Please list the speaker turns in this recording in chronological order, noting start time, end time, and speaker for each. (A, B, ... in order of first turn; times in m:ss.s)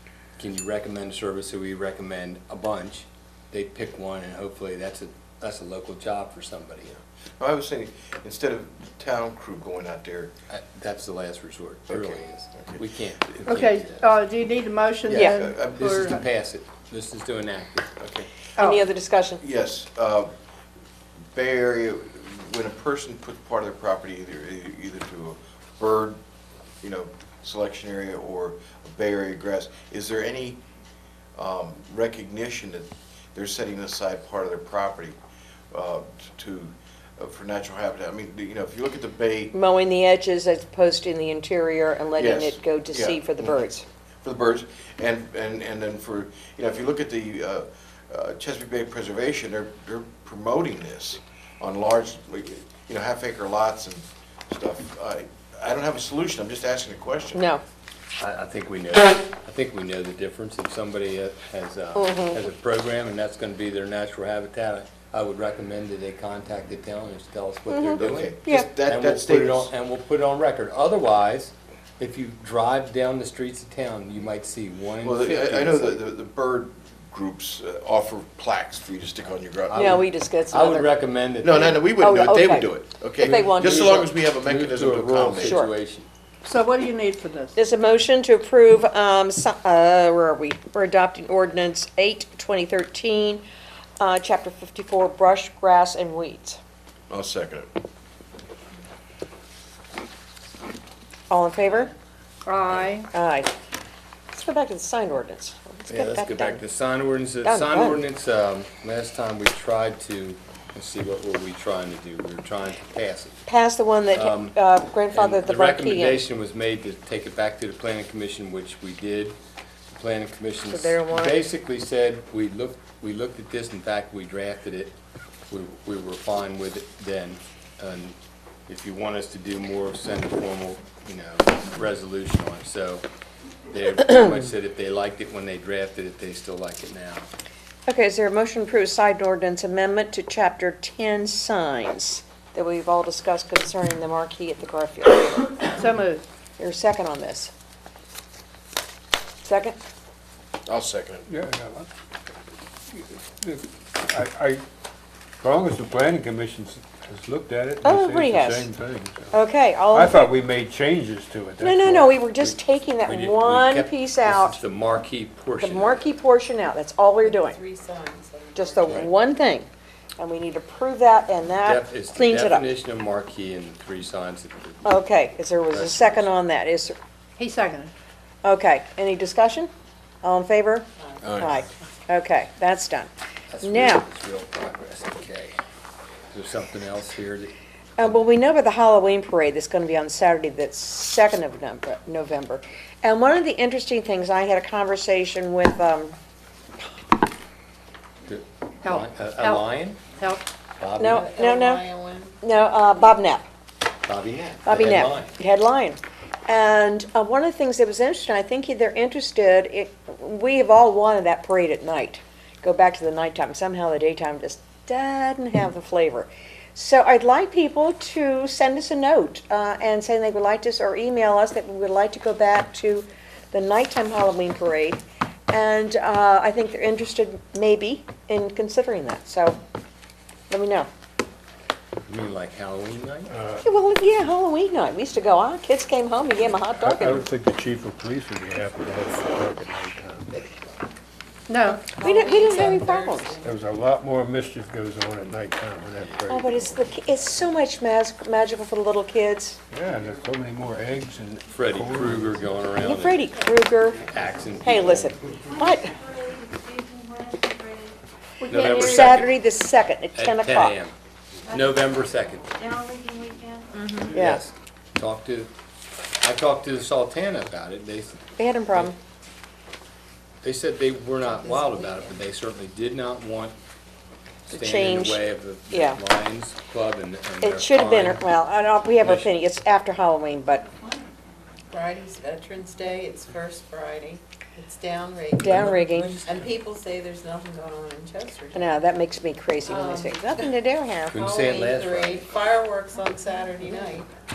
0:00.4-0:06.9 A
0:07.4-0:10.3 B
0:10.5-0:14.2 A
0:11.9-0:12.8 B
0:13.4-0:16.2 C
0:15.1-0:17.9 A
0:15.2-0:16.1 B
0:18.0-0:18.3 B
0:18.6-0:19.4 D
0:18.6-0:18.8 C
0:19.4-0:20.3 B
0:21.3-0:26.2 B
0:26.8-0:30.6 B
0:31.4-0:35.2 B
0:35.7-0:39.5 B
0:39.5-0:43.8 D
0:42.2-0:43.4 B
0:44.2-0:57.4 B
0:57.3-0:57.6 D
0:58.2-1:16.0 A
1:02.0-1:02.4 D
1:07.7-1:08.6 D
1:08.0-1:09.7 B
1:15.0-1:20.0 B
1:19.7-1:21.9 A
1:19.7-1:20.9 D
1:21.4-1:25.6 B
1:22.0-1:24.0 D
1:23.2-1:26.1 A
1:25.4-1:25.7 D
1:26.4-1:27.6 C
1:27.6-1:33.4 D
1:34.0-1:36.6 D
1:37.1-1:37.7 B
1:41.3-1:41.9 D
1:42.4-1:43.1 C
1:43.1-1:43.5 D
1:44.3-1:46.6 D
1:45.9-1:53.4 A
1:47.4-1:48.0 D
1:53.4-1:56.2 D
1:54.1-1:54.6 A
1:55.1-1:59.4 A
1:59.9-2:04.9 A
2:00.7-2:01.4 D
2:05.5-2:08.2 A
2:08.7-2:13.0 A
2:13.7-2:17.3 A
2:17.9-2:25.7 D
2:25.7-2:26.2 C
2:26.6-2:27.5 D
2:29.4-2:29.8 D
2:30.6-2:31.2 B
2:31.3-2:31.9 E
2:32.9-2:34.6 E
2:35.4-2:42.6 E
2:37.8-2:38.7 D
2:39.3-2:40.2 D
2:41.6-2:44.6 D
2:43.0-2:46.1 A
2:45.6-2:47.6 D
2:47.2-2:49.0 F
2:48.6-2:52.7 D
2:51.6-2:54.9 A
2:54.8-2:57.0 D
2:55.7-2:56.3 A
2:57.4-2:57.9 C
2:58.4-2:59.7 D
3:00.2-3:03.1 D
3:01.2-3:01.6 B
3:03.5-3:05.6 A
3:03.6-3:04.0 D
3:06.3-3:07.5 A
3:08.0-3:16.2 D
3:18.2-3:20.0 A
3:18.8-3:20.4 C
3:20.8-3:21.2 A
3:21.0-3:21.8 D
3:21.0-3:22.4 F
3:22.4-3:23.4 D
3:24.0-3:25.3 A
3:24.6-3:49.6 D
3:50.5-3:50.9 D
3:52.1-3:53.3 A
3:53.3-3:53.6 E
3:53.6-3:57.2 D
3:56.8-4:00.4 E
4:01.5-4:01.9 C
4:01.6-4:03.5 F
4:01.9-4:03.3 D
4:03.4-4:06.7 E
4:06.3-4:09.6 D
4:09.7-4:12.5 E
4:11.5-4:13.2 A
4:12.8-4:14.0 D
4:14.0-4:15.1 A
4:14.6-4:16.0 D
4:15.5-4:17.9 G
4:18.4-4:19.1 C
4:18.5-4:19.3 A
4:18.6-4:20.8 D
4:20.1-4:20.9 A
4:21.5-4:22.6 A
4:22.6-4:23.7 G
4:23.8-4:24.0 C
4:24.0-4:24.4 D
4:24.0-4:25.5 A
4:26.2-4:28.9 A
4:28.4-4:29.0 D
4:30.4-4:33.5 A
4:31.5-4:32.1 F
4:34.5-4:38.2 A
4:34.5-4:36.0 D
4:37.4-4:40.6 D
4:39.0-4:39.3 A
4:41.7-4:48.8 F
4:45.4-4:46.2 D
4:48.5-4:51.2 D
4:49.6-4:50.4 F
4:51.1-4:52.3 A
4:51.2-4:54.1 F